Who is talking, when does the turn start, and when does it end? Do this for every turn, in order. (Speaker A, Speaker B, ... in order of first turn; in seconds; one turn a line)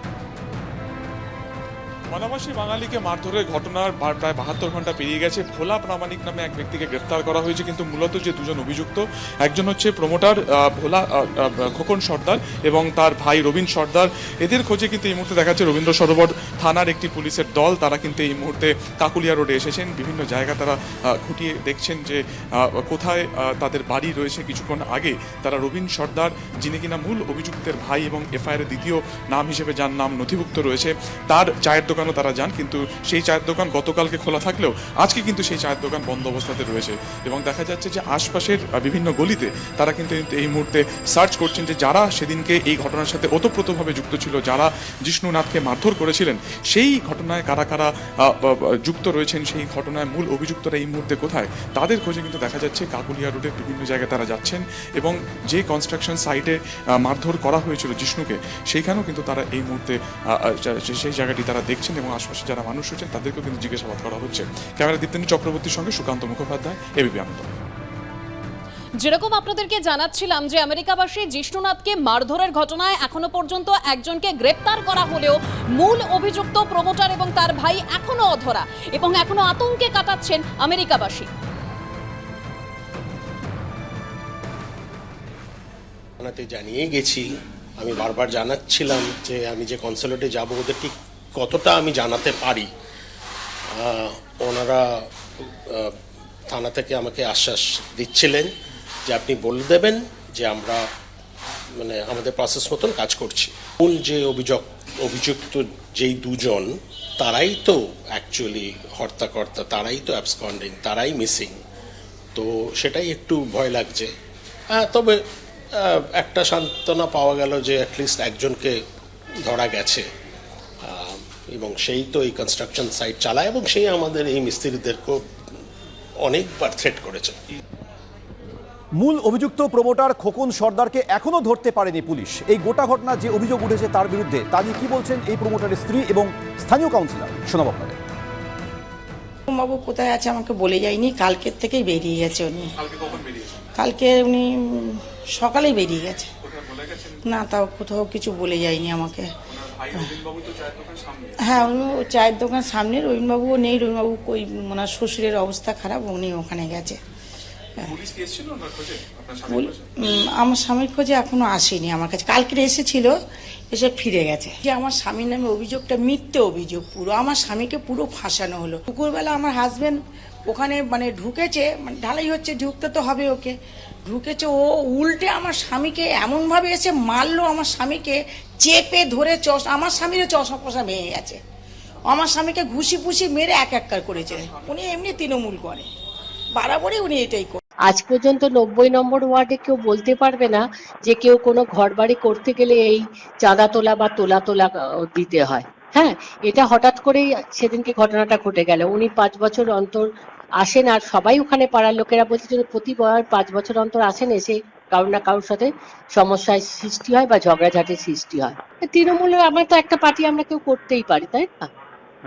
Speaker A: 2.1-67.5
Speaker B: 69.0-81.3
Speaker C: 86.2-87.2
Speaker C: 87.8-92.7
Speaker C: 93.7-94.8
Speaker C: 95.4-95.9
Speaker C: 96.5-98.5
Speaker C: 99.0-100.8
Speaker C: 101.8-111.5
Speaker C: 112.3-114.1
Speaker C: 114.7-115.2
Speaker C: 115.7-118.8
Speaker C: 119.5-120.0
Speaker C: 120.8-125.2
Speaker C: 126.2-127.4
Speaker D: 128.9-137.9
Speaker E: 139.5-142.7
Speaker A: 142.8-143.6
Speaker E: 143.8-146.3
Speaker A: 146.4-147.3
Speaker E: 147.2-149.3
Speaker A: 149.5-151.8
Speaker E: 151.4-157.0
Speaker A: 157.8-159.9
Speaker E: 159.5-163.1
Speaker E: 163.7-170.0
Speaker E: 170.5-173.5
Speaker E: 174.1-181.3
Speaker E: 182.1-185.9
Speaker E: 186.6-187.6
Speaker F: 187.9-200.1
Speaker F: 200.6-211.7